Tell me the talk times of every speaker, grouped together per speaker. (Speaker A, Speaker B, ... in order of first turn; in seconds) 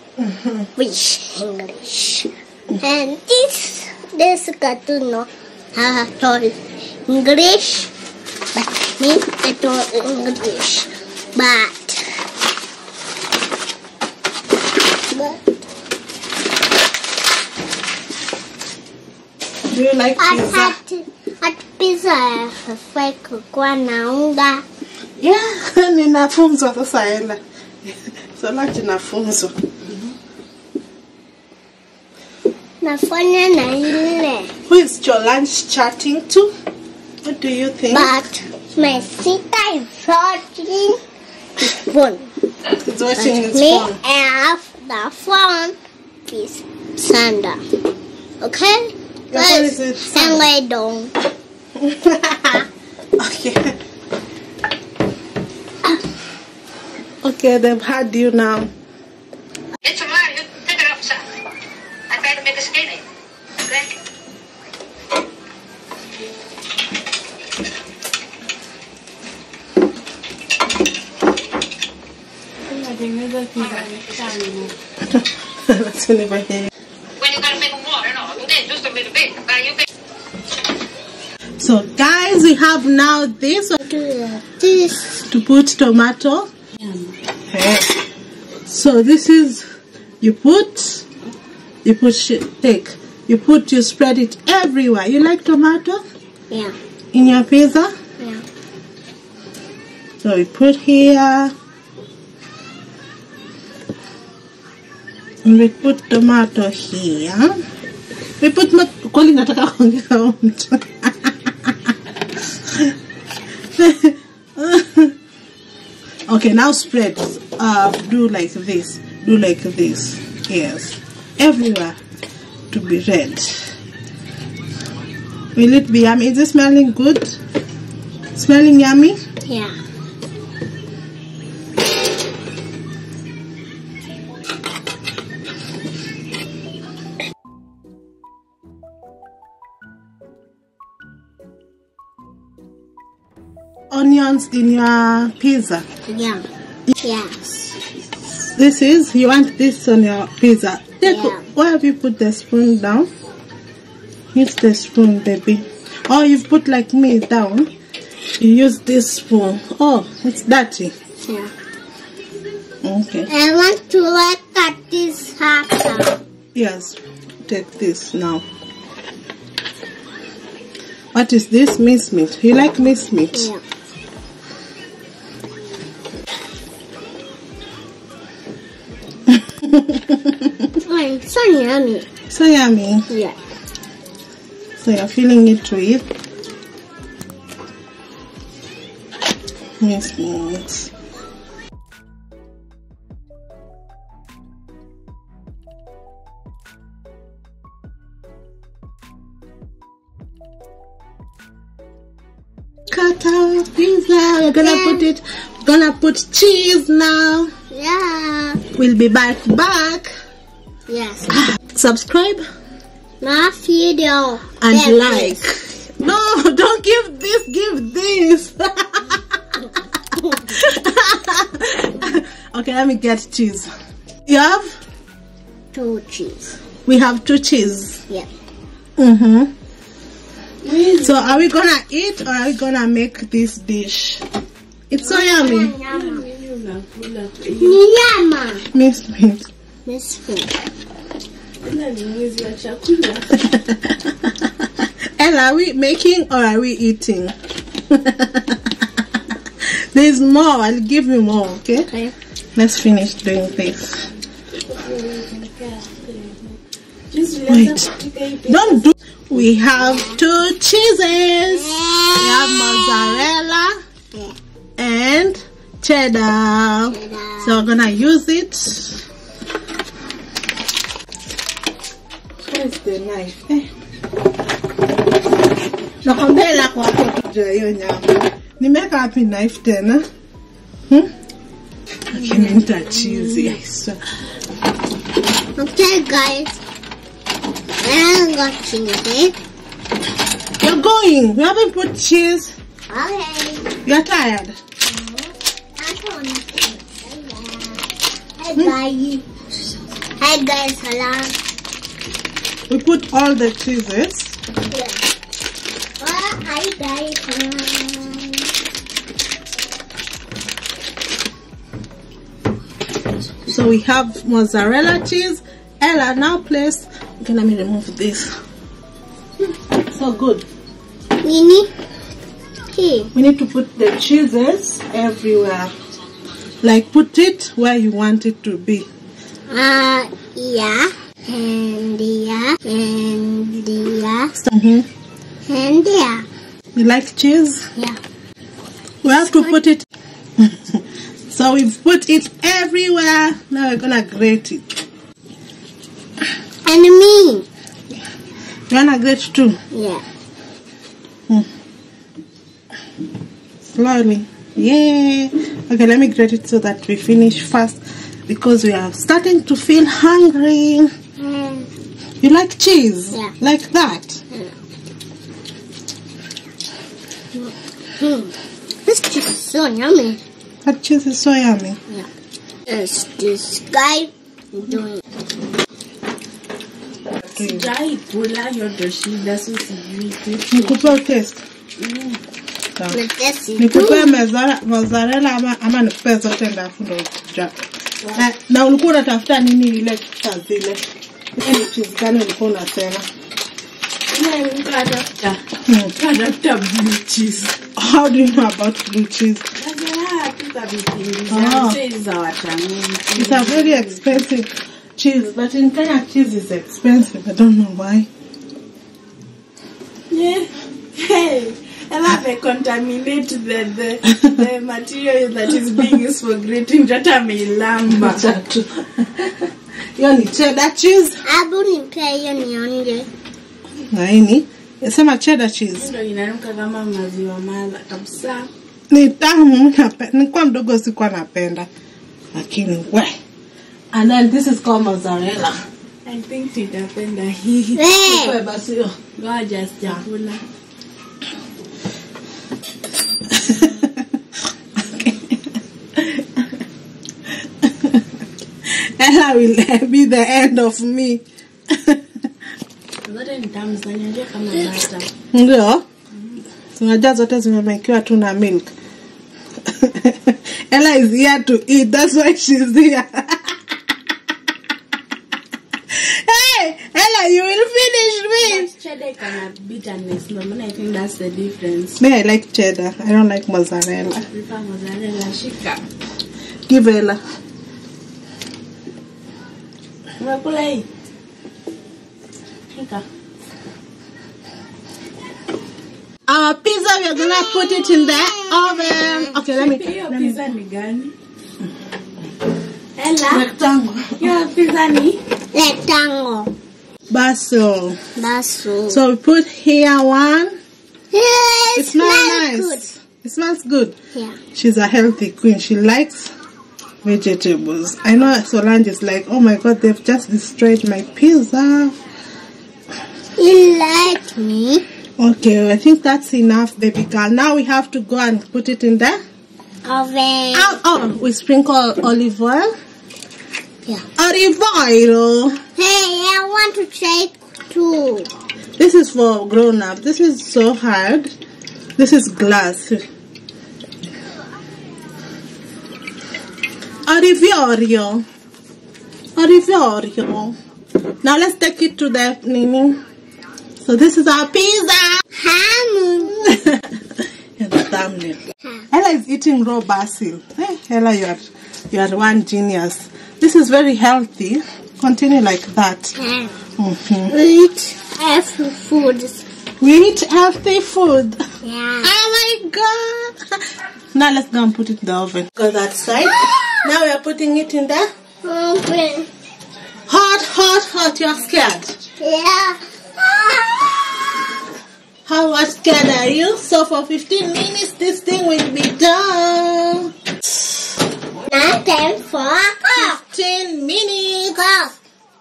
Speaker A: 0.2-0.7, 19.7-20.8, 25.2-29.5, 34.7-36.5, 37.2-38.1, 42.8-44.0, 49.3-50.5, 51.8-52.6, 53.2-53.8, 57.2-58.7, 75.1-76.7, 81.6-83.8, 85.1-86.5, 87.5-87.9, 88.7-89.6, 90.2-91.0, 91.8-96.0, 97.1-97.9, 100.2-101.5, 105.4-107.6, 108.4-111.8, 112.7-112.9, 113.7-115.1, 116.3-122.0, 122.7-123.7, 125.5-127.3, 128.3-129.2, 143.9-145.8, 148.5-153.1, 154.3-157.7, 158.4-160.9, 162.8-163.3, 166.5-168.4, 171.1-173.5, 179.3-180.7, 182.3-183.1, 184.8-186.1, 189.8-190.9, 202.9-207.5, 208.8-210.1, 211.6-212.4, 214.6-219.2, 220.4-223.7, 224.2-224.8, 226.9-228.0, 229.0-229.5, 231.0-234.2, 234.9-235.7, 238.7-239.4, 243.4-244.3, 245.2-247.3, 247.9-248.7, 249.7-251.9, 252.6-254.1, 257.5-257.9, 258.5-263.8, 264.8-269.0, 272.4-273.7, 276.0-280.0, 282.1-284.0, 290.6-292.5, 293.8-294.6, 302.7-304.4, 313.5-318.3, 319.9-320.4, 323.1-325.7, 326.6-328.9, 334.4-334.9, 336.7-337.7, 339.0-339.9, 340.4-344.6, 348.7-349.6, 353.7-360.9, 362.2-364.2, 370.6-371.8, 377.2-377.7, 380.5-381.4, 383.6-387.5, 388.1-390.8, 391.4-393.0, 395.6-395.9, 397.8-399.4, 401.3-401.8, 403.2-408.1, 414.1-414.4, 417.9-419.4, 420.0-421.2, 423.9-425.9, 428.9-431.7, 432.3-433.2, 433.9-435.6, 438.0-439.0, 443.3-443.9, 444.9-445.2, 445.9-446.2, 447.6-448.0, 448.7-452.0, 455.3-455.9, 456.8-458.7, 459.6-463.5, 465.9-468.7, 472.0-474.2, 476.7-477.2, 486.3-490.4, 493.3-494.3, 497.1-498.0, 498.9-500.6, 501.7-503.9, 504.5-506.3, 507.0-511.9, 515.2-519.2, 520.5-522.7, 524.2-525.6, 528.8-531.3, 532.0-533.0, 537.0-538.2, 539.4-540.5, 541.2-543.0, 543.8-545.2, 546.5-546.9, 547.6-548.4, 548.9-556.1, 556.8-557.3, 559.8-561.5, 562.0-563.5, 564.1-568.1, 570.1-572.0, 575.2-580.1, 582.9-584.8
Speaker B: 0.8-7.9, 8.5-12.0, 15.1-15.4, 20.2-24.6, 32.8-34.5, 37.9-41.0, 41.6-42.3, 43.2-45.8, 46.3-47.6, 48.4-51.1, 83.8-85.1, 96.5-96.7, 98.2-98.4, 129.4-129.7, 146.1-146.4, 147.0-147.3, 151.0-151.4, 161.2-161.5, 163.3-166.2, 173.3-173.6, 180.8-182.1, 183.1-183.4, 204.6-205.1, 207.7-208.6, 210.9-211.3, 213.2-215.4, 220.2-220.4, 225.7-226.5, 235.0-236.2, 237.6-238.7, 239.8-240.5, 251.9-252.1, 259.8-260.2, 261.5-263.3, 266.9-267.7, 282.1-283.6, 285.6-286.6, 287.8-289.3, 292.9-293.7, 294.8-299.2, 300.2-301.3, 304.7-305.0, 306.0-308.5, 321.2-321.7, 322.7-323.1, 329.5-334.3, 335.5-336.2, 346.6-347.5, 349.7-350.0, 361.2-361.7, 367.3-368.3, 368.9-370.2, 372.7-375.0, 382.9-384.1, 421.2-423.1, 437.7-438.4, 487.1-489.4, 495.5-496.5, 498.2-499.0, 501.1-502.9, 513.4-514.8, 519.8-520.8, 525.8-528.3, 545.4-546.5, 556.2-556.6, 557.3-559.5, 561.6-562.1, 566.2-566.9, 568.4-569.3, 572.2-574.2, 581.5-583.2, 584.6-584.9
Speaker C: 29.9-30.1, 72.6-74.7, 86.8-87.2, 230.6-231.4, 235.9-237.8, 241.6-243.3, 254.6-256.6, 257.1-258.8, 377.4-381.0, 381.8-382.2, 394.1-395.4, 395.9-397.5, 399.6-404.2, 410.1-418.3, 425.8-428.5, 436.0-437.8, 439.1-440.4, 453.0-455.1, 468.4-472.0, 474.3-475.8, 480.2-480.9, 482.7-483.0, 489.5-491.1, 493.0-493.4, 494.2-495.2
Speaker D: 59.8-61.2, 62.1-63.0, 77.2-79.8